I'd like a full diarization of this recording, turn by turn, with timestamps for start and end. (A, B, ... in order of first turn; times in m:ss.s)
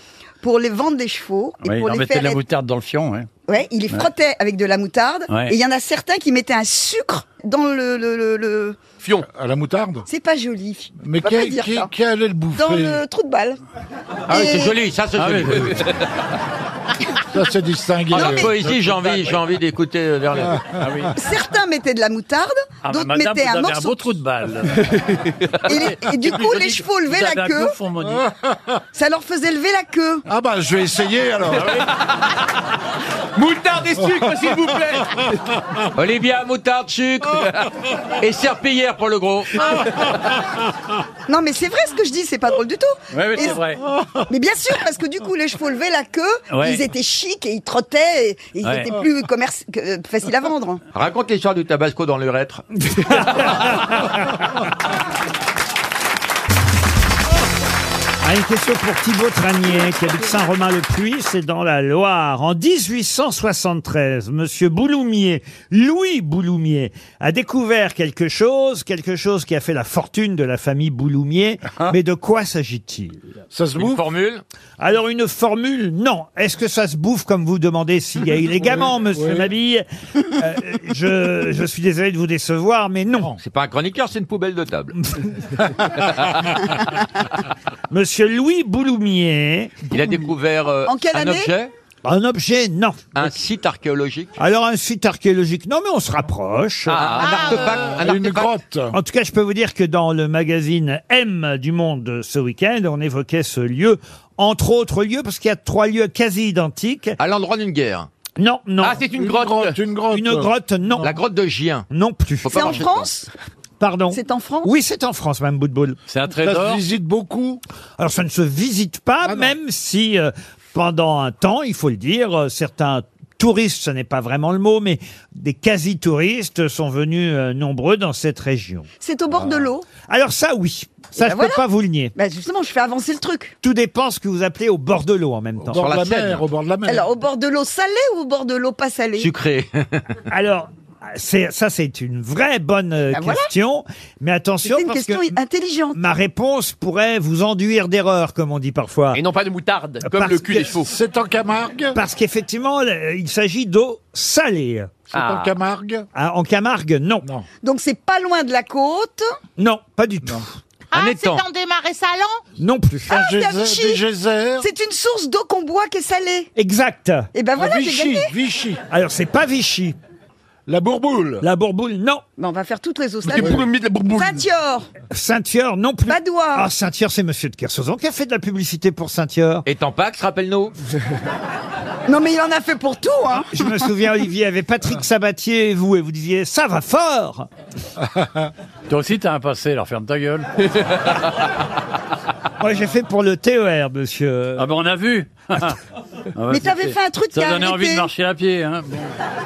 0:00.4-0:02.4 A
0:01.6-0:03.3 B
0:03.5-0:08.8 A
0:05.3-0:05.6 B
0:09.3-0:10.1 C
0:10.1-0:11.9 A
0:11.0-0:13.0 C
0:12.6-0:13.6 A
0:14.3-0:15.8 D
0:14.3-0:14.8 A
0:15.2-0:15.8 B
0:17.3-0:18.6 C
0:18.1-0:20.7 D
0:18.2-0:18.5 A
0:20.8-0:21.2 B
0:21.2-0:24.0 A
0:22.8-0:24.9 B
0:24.9-0:25.7 E
0:25.7-0:27.8 A
0:25.7-0:28.3 B
0:28.9-0:30.2 A
0:30.3-0:31.8 C
0:33.4-0:35.2 E
0:36.0-0:37.5 D
0:38.2-0:39.7 D
0:41.3-0:43.6 A
0:43.1-0:43.8 B
0:44.3-0:50.8 A
0:46.5-0:46.8 B
0:48.6-0:48.9 B
0:50.9-0:53.2 D
0:53.0-0:54.1 F
0:58.2-1:13.2 F
1:13.5-1:14.0 C
1:13.8-1:14.4 D
1:14.8-1:23.3 F
1:18.6-1:19.5 C
1:23.4-1:24.9 D
1:27.9-1:29.8 F
1:29.9-1:31.7 D
1:30.9-1:31.5 A
1:32.0-1:33.3 F
1:33.2-1:34.4 D
1:34.4-1:37.1 F
1:36.9-1:37.5 E
1:36.9-1:38.6 D
1:37.1-1:38.0 G
1:37.9-1:38.9 C
1:38.9-1:47.2 F
1:47.2-1:48.1 D
1:48.4-1:49.0 F
1:48.8-1:49.8 E
1:49.2-1:51.1 C
1:50.1-1:51.1 F
1:51.0-1:51.9 D
1:51.9-1:52.8 F
1:52.4-1:53.1 D
1:52.5-1:53.3 A
1:53.8-1:56.0 F
1:54.1-1:54.7 A
1:56.1-1:56.8 B
1:56.4-1:57.6 C
1:58.0-2:08.9 F
1:59.3-1:59.5 C
2:09.0-2:09.9 A
2:10.1-2:12.1 F
2:11.2-2:11.6 A
2:12.2-2:13.6 A
2:13.6-2:15.8 F
2:15.7-2:17.1 C
2:15.7-2:16.5 D
2:16.9-2:19.3 A
2:19.2-2:20.1 D
2:20.3-2:25.3 F
2:23.1-2:23.5 A
2:24.6-2:26.0 A
2:26.0-2:29.2 F
2:29.1-2:30.9 E
2:30.0-2:30.8 F
2:30.9-2:32.0 C
2:31.9-2:34.9 F
2:35.1-2:36.0 C
2:35.1-2:35.5 E
2:36.1-2:37.3 F
2:37.6-2:39.3 A
2:39.6-2:40.5 F
2:40.9-2:42.4 G
2:40.9-2:41.4 D
2:42.6-2:43.2 F
2:43.1-2:44.0 A
2:43.1-2:44.7 C
2:44.6-2:46.5 A
2:46.6-2:47.3 F
2:47.3-2:48.3 A
2:47.6-2:48.8 C
2:48.9-2:50.0 F
2:50.7-2:51.4 C
2:51.4-2:52.2 F
2:52.4-2:54.9 A
2:53.3-2:54.4 E
2:53.4-2:53.7 C
2:55.1-2:59.7 F
2:56.1-2:56.7 A
2:59.7-3:00.7 D
3:02.1-3:03.9 A
3:03.5-3:07.5 F
3:08.9-3:10.5 B
3:12.6-3:14.6 F
3:14.6-3:15.8 B
3:16.4-3:19.1 B
3:16.5-3:18.1 A